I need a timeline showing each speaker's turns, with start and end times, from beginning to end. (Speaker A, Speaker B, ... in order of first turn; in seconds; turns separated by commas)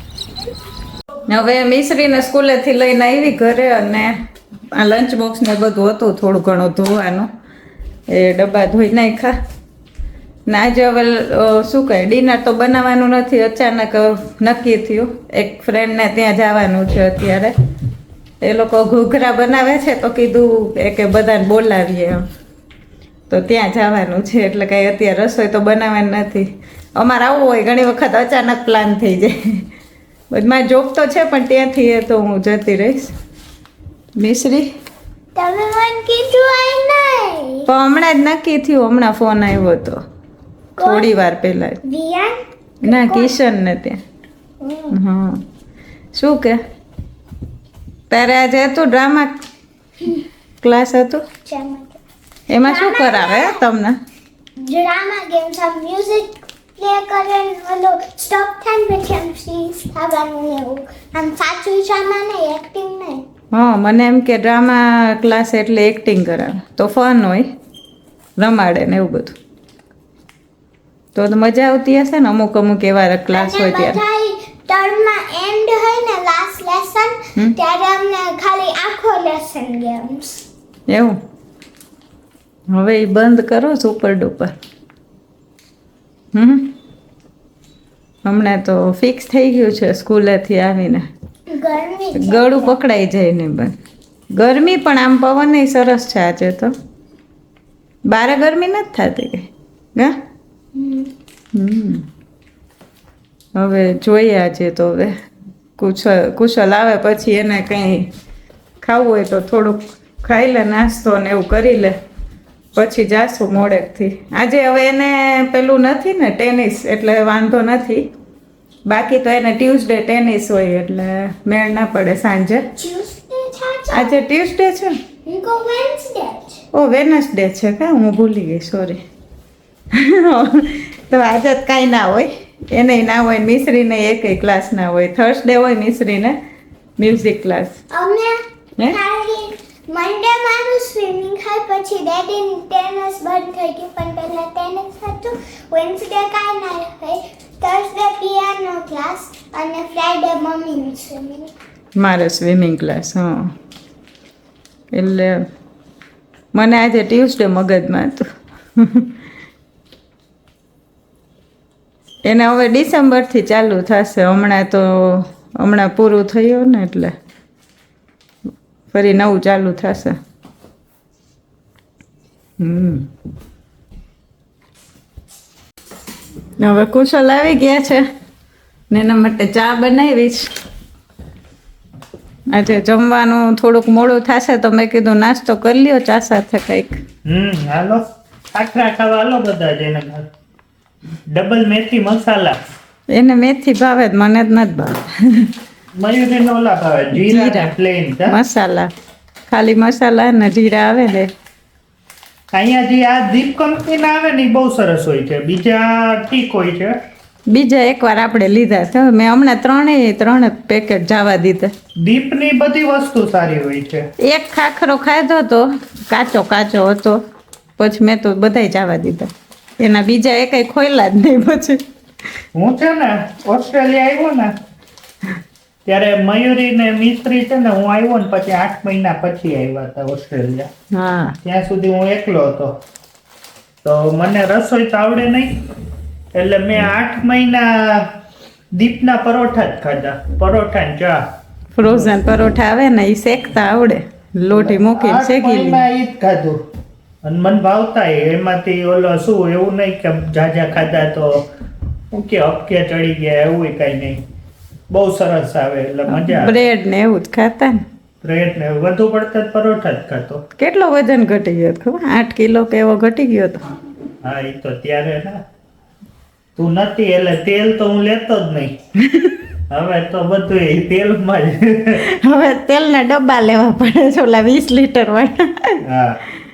Speaker A: 1.3-4.1, Speaker A: 4.7-7.3, Speaker A: 8.1-9.3, Speaker A: 10.5-17.6, Speaker A: 18.4-22.2, Speaker A: 23.3-29.6, Speaker A: 30.3-33.1, Speaker A: 34.2-34.7, Speaker B: 35.3-37.7, Speaker A: 37.6-40.0, Speaker B: 40.8-41.1, Speaker A: 40.8-41.8, Speaker B: 41.8-43.4, Speaker A: 42.8-44.0, Speaker B: 44.6-45.0, Speaker A: 44.9-45.4, Speaker A: 46.1-46.6, Speaker A: 48.1-49.4, Speaker A: 50.6-51.2, Speaker B: 51.5-52.0, Speaker A: 52.5-54.0, Speaker B: 52.6-53.6, Speaker B: 54.6-63.2, Speaker A: 63.5-67.5, Speaker A: 68.4-69.4, Speaker A: 71.1-74.0, Speaker B: 73.3-80.4, Speaker A: 80.9-81.2, Speaker A: 82.7-84.5, Speaker A: 86.3-86.7, Speaker A: 88.2-91.1, Speaker B: 91.5-92.8, Speaker A: 92.1-93.8, Speaker A: 94.3-96.7, Speaker A: 98.1-100.1, Speaker B: 100.7-101.1, Speaker A: 101.5-102.0, Speaker A: 103.5-105.2, Speaker A: 105.8-108.1, Speaker A: 108.8-112.0, Speaker A: 112.7-118.1, Speaker A: 118.9-122.7, Speaker B: 122.8-124.2, Speaker A: 123.9-125.0, Speaker B: 125.2-126.6, Speaker A: 126.7-129.0, Speaker A: 129.9-136.3, Speaker A: 137.0-137.8, Speaker B: 137.9-151.5, Speaker A: 152.0-153.5, Speaker A: 154.9-155.4, Speaker A: 156.5-159.1, Speaker A: 162.2-167.2, Speaker A: 168.9-170.2, Speaker A: 172.6-173.1, Speaker A: 176.6-178.1, Speaker A: 178.9-180.5, Speaker A: 182.5-187.0, Speaker C: 187.2-190.3, Speaker C: 191.3-192.6, Speaker A: 193.1-195.5, Speaker C: 195.9-198.3, Speaker A: 197.1-197.7, Speaker A: 198.3-198.9, Speaker A: 199.5-201.3, Speaker C: 202.5-207.0, Speaker A: 207.5-211.7, Speaker C: 212.0-214.1, Speaker A: 214.2-217.2, Speaker A: 217.8-221.8, Speaker C: 222.5-224.5, Speaker C: 225.8-230.7, Speaker A: 230.9-231.3, Speaker C: 231.4-232.8, Speaker C: 233.8-235.6, Speaker C: 236.3-238.2, Speaker C: 238.7-241.2, Speaker A: 241.8-245.8, Speaker C: 241.9-242.1, Speaker C: 244.5-246.6, Speaker C: 247.2-251.4, Speaker C: 252.1-254.2, Speaker C: 254.9-256.6, Speaker A: 256.1-257.8, Speaker C: 258.2-260.4, Speaker A: 260.6-263.6, Speaker C: 264.2-265.4, Speaker C: 266.6-268.8, Speaker A: 269.0-269.4, Speaker C: 269.7-272.0, Speaker A: 272.0-275.8, Speaker C: 275.8-276.2